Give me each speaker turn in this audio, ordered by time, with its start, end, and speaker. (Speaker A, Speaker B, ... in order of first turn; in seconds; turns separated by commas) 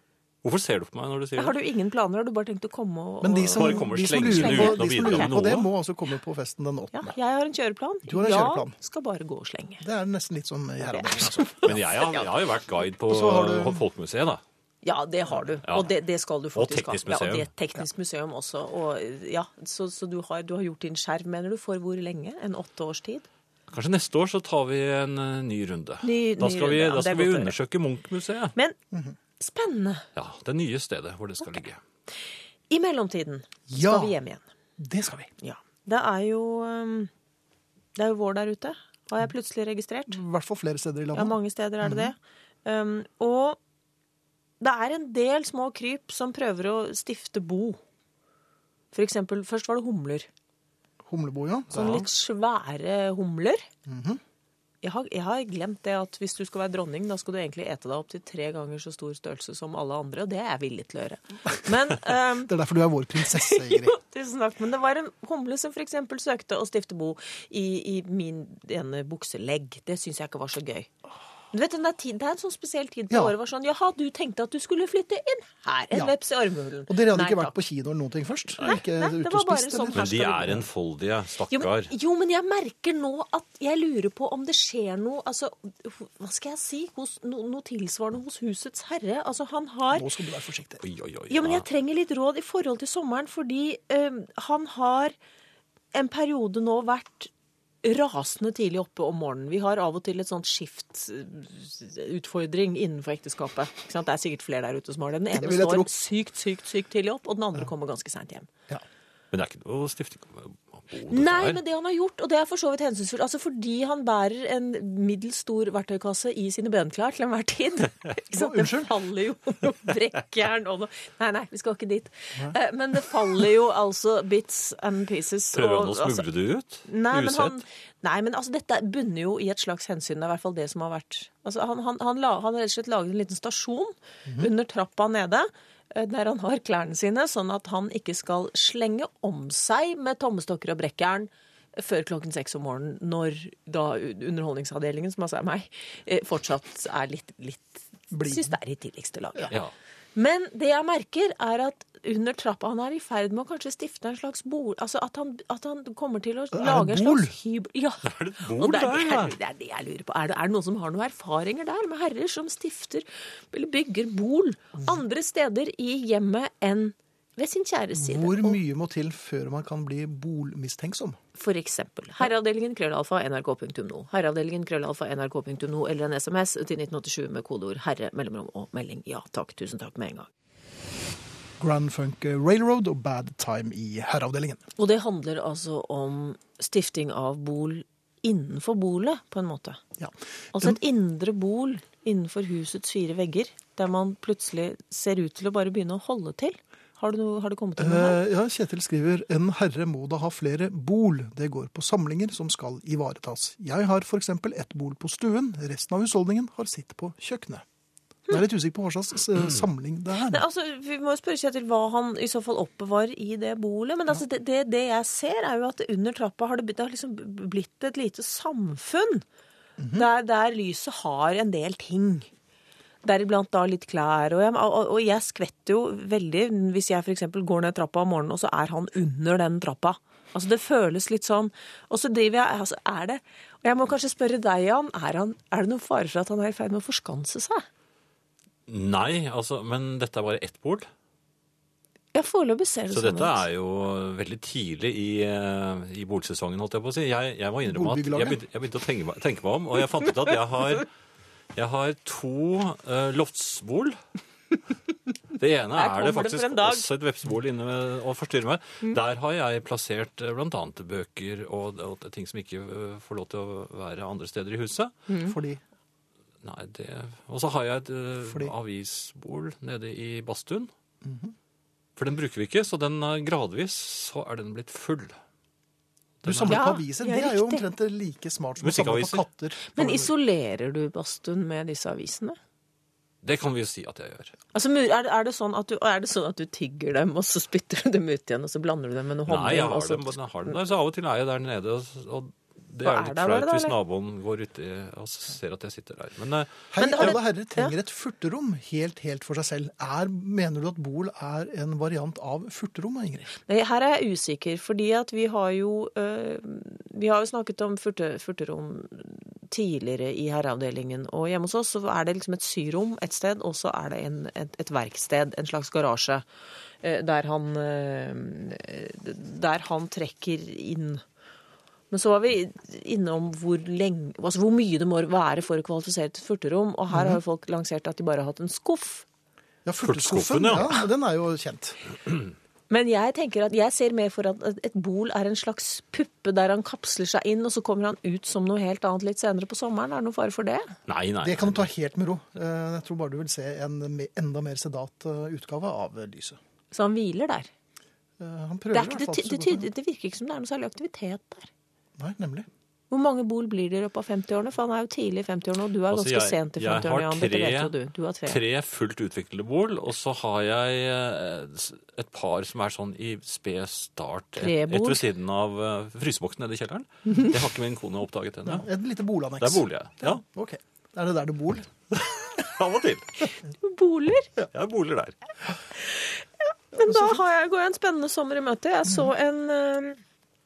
Speaker A: 0.4-1.6, Speaker B: 1.4-5.4, Speaker C: 3.2-7.2, Speaker A: 3.5-5.7, Speaker B: 6.9-9.8, Speaker C: 8.1-8.8, Speaker C: 9.8-11.8, Speaker B: 10.8-12.2, Speaker A: 11.7-14.4, Speaker C: 13.1-13.8, Speaker B: 14.8-23.3, Speaker A: 15.7-15.9, Speaker A: 16.6-17.5, Speaker A: 23.7-28.6, Speaker B: 26.0-27.6, Speaker B: 29.4-30.0, Speaker A: 30.2-31.8, Speaker B: 32.7-34.4, Speaker C: 33.7-34.2, Speaker C: 34.8-35.3, Speaker B: 35.4-37.1, Speaker B: 38.0-40.2, Speaker C: 40.1-42.1, Speaker B: 41.1-43.6, Speaker B: 44.6-47.8, Speaker B: 48.9-50.3, Speaker C: 51.0-52.0, Speaker B: 51.7-53.7, Speaker C: 53.9-54.2, Speaker B: 54.8-62.5, Speaker C: 62.4-64.0, Speaker B: 63.2-70.9, Speaker B: 71.5-77.5, Speaker C: 73.1-73.4, Speaker C: 76.9-80.6, Speaker B: 78.6-80.6, Speaker A: 79.9-81.9, Speaker B: 81.5-90.1, Speaker C: 89.9-90.8, Speaker A: 90.8-91.7, Speaker B: 91.3-95.2, Speaker B: 95.9-97.3, Speaker B: 97.8-108.5, Speaker C: 105.3-105.9, Speaker A: 109.3-111.6, Speaker B: 111.1-126.3, Speaker C: 118.3-118.9, Speaker A: 125.5-127.6, Speaker B: 126.9-149.6, Speaker C: 148.1-148.6, Speaker B: 150.2-168.6, Speaker C: 156.5-157.3, Speaker A: 158.1-159.3, Speaker C: 167.9-171.2, Speaker B: 171.4-180.3, Speaker C: 181.6-184.6, Speaker B: 184.8-189.8, Speaker C: 190.0-190.8, Speaker B: 190.5-198.2, Speaker C: 197.8-207.6, Speaker C: 208.3-210.4, Speaker B: 210.2-219.2, Speaker C: 219.8-220.1, Speaker B: 219.9-222.3, Speaker B: 223.0-237.7, Speaker A: 238.7-240.9, Speaker B: 242.1-243.4, Speaker A: 242.9-250.9, Speaker C: 247.7-248.4, Speaker A: 251.6-254.0, Speaker A: 255.4-264.9, Speaker B: 255.7-256.9, Speaker B: 265.1-265.4, Speaker C: 265.3-265.6, Speaker A: 266.4-270.7, Speaker C: 268.2-268.5, Speaker C: 271.0-271.3, Speaker A: 272.0-275.2, Speaker A: 276.2-276.6, Speaker C: 276.2-280.1, Speaker B: 276.5-277.6, Speaker A: 278.6-279.2, Speaker B: 279.8-282.4, Speaker A: 283.2-284.3, Speaker B: 284.5-290.5, Speaker A: 289.3-297.1, Speaker B: 292.8-293.8, Speaker C: 296.7-303.3, Speaker B: 296.8-297.8, Speaker B: 303.5-316.2, Speaker B: 316.8-321.0, Speaker B: 321.9-329.1, Speaker C: 326.9-327.2, Speaker C: 329.6-331.8, Speaker A: 329.8-330.9, Speaker B: 332.7-340.7, Speaker A: 340.9-341.7, Speaker C: 341.2-346.4, Speaker B: 346.7-347.5, Speaker C: 348.2-349.7, Speaker B: 348.7-351.5, Speaker C: 352.0-352.5, Speaker B: 352.9-358.4, Speaker A: 355.9-357.7, Speaker A: 358.3-368.7, Speaker B: 364.4-365.0, Speaker C: 368.4-371.7, Speaker A: 369.4-370.2, Speaker A: 371.9-373.3, Speaker B: 373.5-374.3, Speaker A: 374.5-375.2, Speaker B: 375.8-380.0, Speaker C: 376.8-377.2, Speaker C: 378.9-379.1